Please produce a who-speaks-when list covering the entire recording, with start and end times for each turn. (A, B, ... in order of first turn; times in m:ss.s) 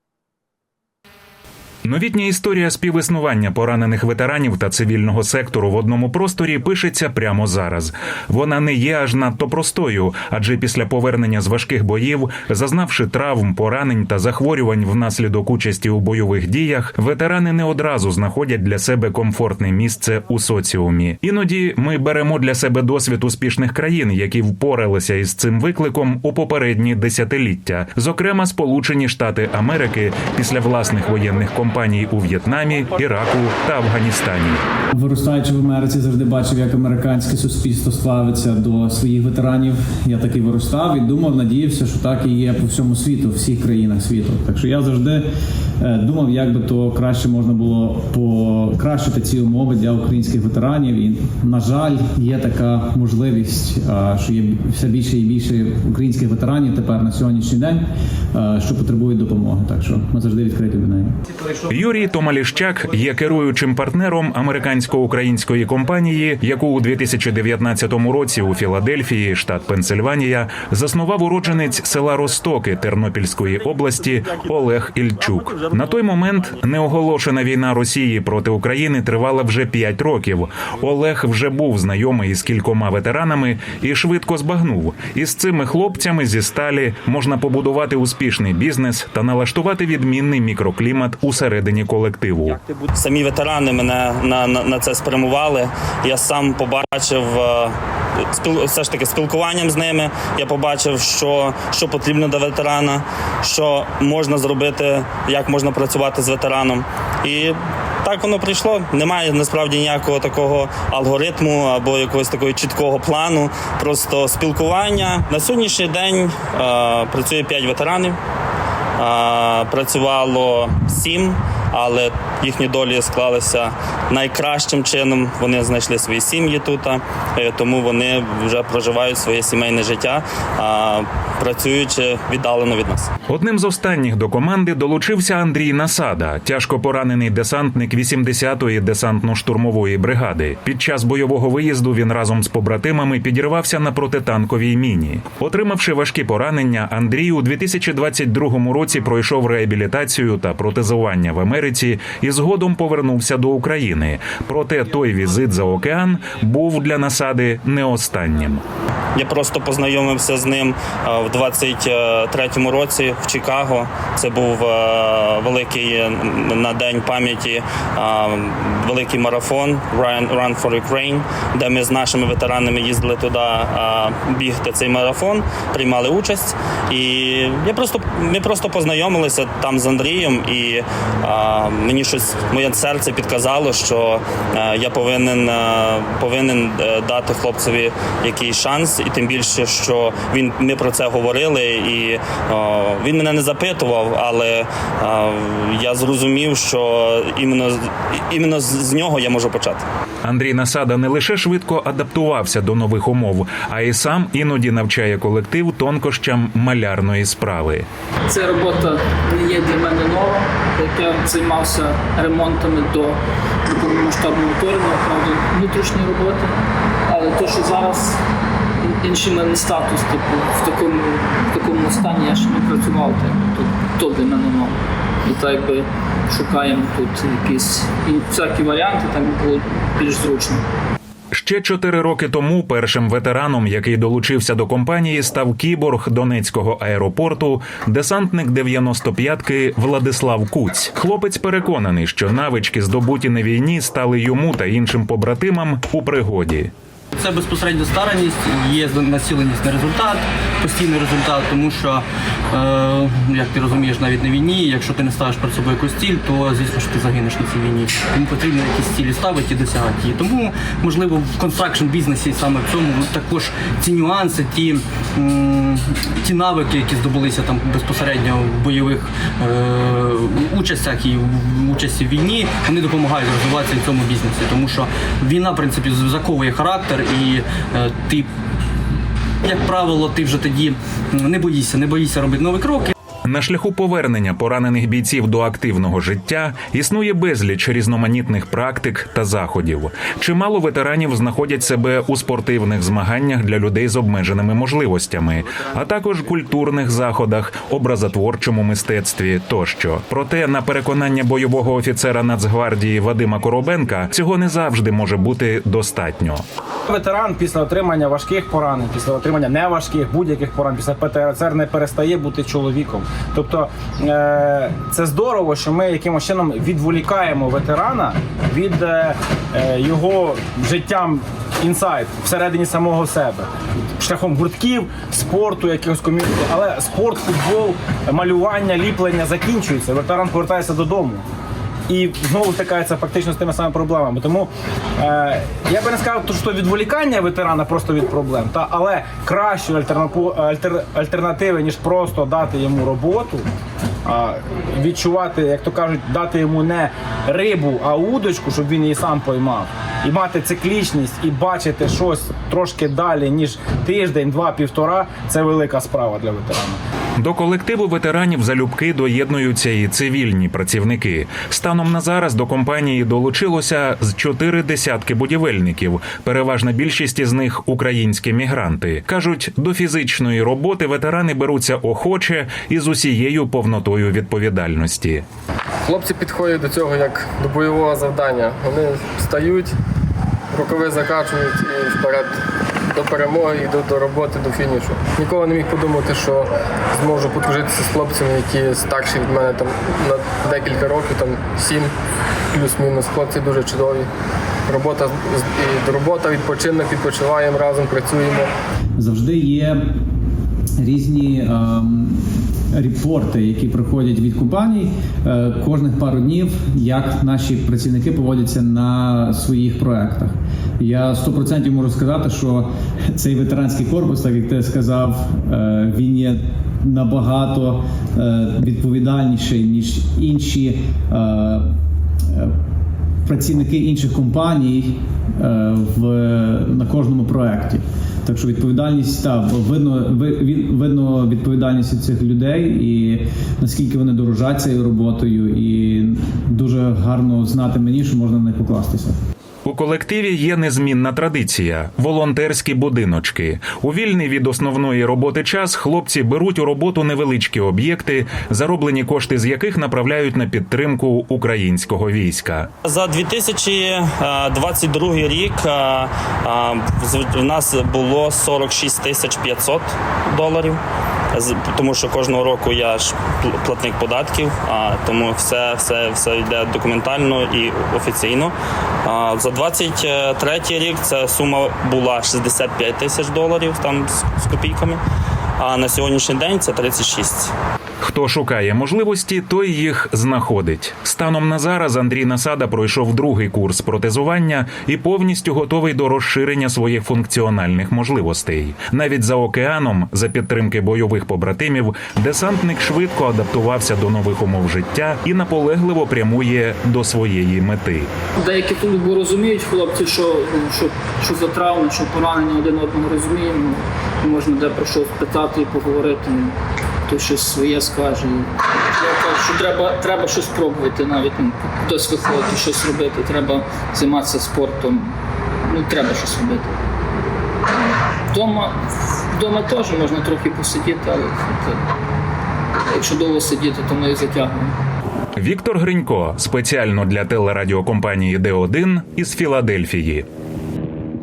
0:01.8-0:34.6 A
0:34.9-0:45.3 B
0:45.8-1:01.2 B
1:01.7-1:32.6 A
1:32.9-1:37.8 C
1:38.3-1:58.2 C
1:59.0-2:13.1 C
2:13.3-2:38.6 A
2:39.1-3:19.8 C
3:20.2-3:27.9 A
3:28.3-3:36.5 D
3:37.1-3:38.2 D
3:38.8-3:50.6 D
3:51.3-4:06.7 A
4:07.1-4:38.3 E
4:39.4-4:42.9 E
4:43.2-5:06.4 A
5:06.9-5:31.2 F
5:31.9-5:43.4 F
5:44.0-5:56.8 F
5:57.2-6:15.2 A
6:15.8-6:19.7 G
6:20.5-6:31.9 G
6:32.5-6:34.1 G
6:34.7-6:38.5 G
6:39.0-6:40.0 B
6:40.8-7:01.8 B
7:03.2-7:19.2 B
7:19.6-7:32.7 A
7:32.8-7:40.8 C
7:41.3-7:55.0 C
7:55.6-7:57.5 C
7:58.0-8:18.1 A
8:18.4-8:26.6 D
8:27.1-8:35.1 D
8:35.7-8:36.7 D
8:38.3-8:38.8 D
8:39.3-8:41.8 D
8:42.9-8:44.7 D
8:45.4-8:50.2 A